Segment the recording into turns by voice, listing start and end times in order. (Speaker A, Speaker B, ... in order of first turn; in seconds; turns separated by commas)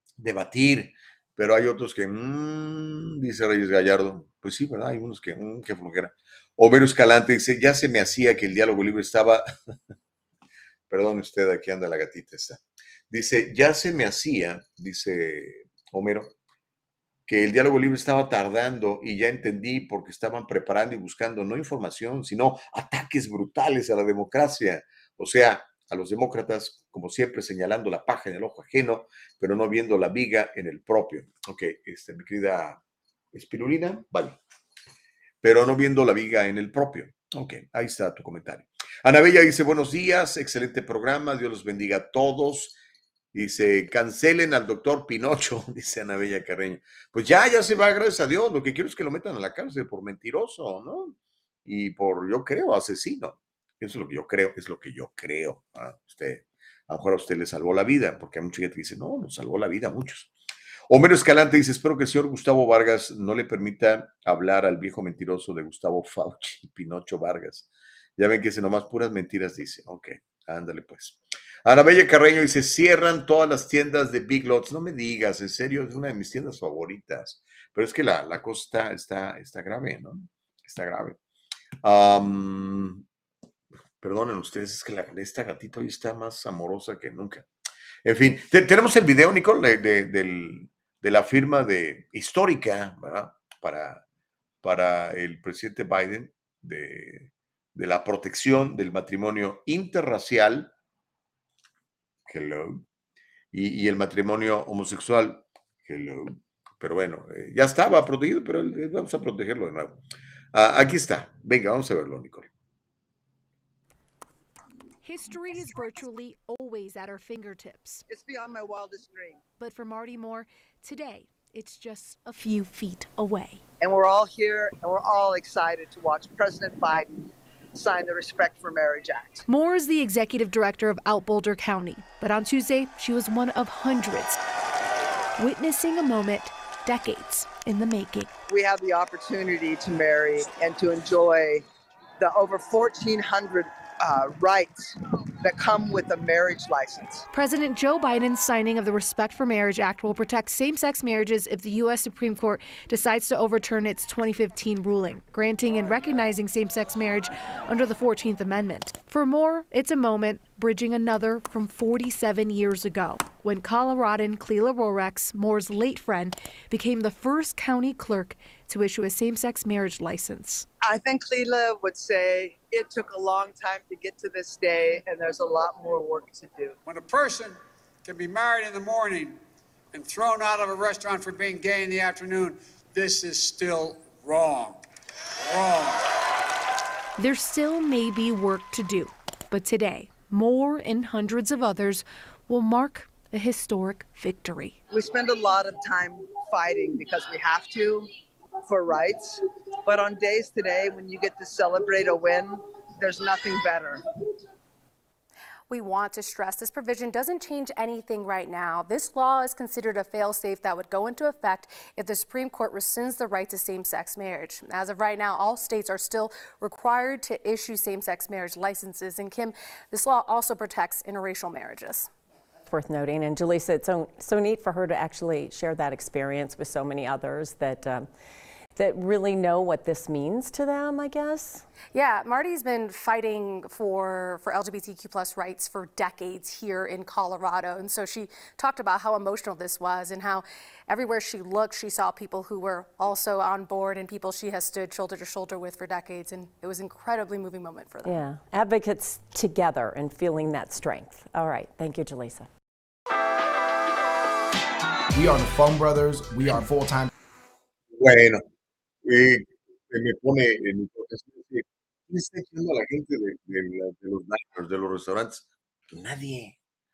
Speaker A: 0.2-9.4, Speaker A: 10.9-16.3, Speaker A: 17.3-32.8, Speaker A: 33.3-34.4, Speaker A: 35.4-42.8, Speaker A: 43.3-51.1, Speaker A: 51.6-60.3, Speaker A: 60.9-81.2, Speaker A: 81.8-83.0, Speaker A: 84.0-87.5, Speaker A: 88.0-94.0, Speaker A: 94.6-100.7, Speaker A: 102.3-102.8, Speaker A: 103.5-110.0, Speaker A: 110.5-112.5, Speaker B: 115.0-118.0, Speaker C: 118.1-119.4, Speaker B: 119.6-123.6, Speaker C: 123.8-129.4, Speaker B: 129.4-134.4, Speaker B: 135.4-138.3, Speaker C: 138.5-141.6, Speaker C: 142.2-147.3, Speaker B: 147.3-170.7, Speaker C: 170.8-176.8, Speaker D: 176.8-179.4, Speaker D: 179.9-184.8, Speaker D: 185.4-186.1, Speaker B: 187.2-194.8, Speaker C: 194.9-198.1, Speaker C: 198.7-204.0, Speaker E: 205.7-222.1, Speaker F: 222.7-228.1, Speaker F: 228.7-231.7, Speaker E: 231.9-248.2, Speaker F: 248.0-252.5, Speaker G: 255.1-257.1, Speaker A: 257.9-258.4, Speaker A: 259.0-266.6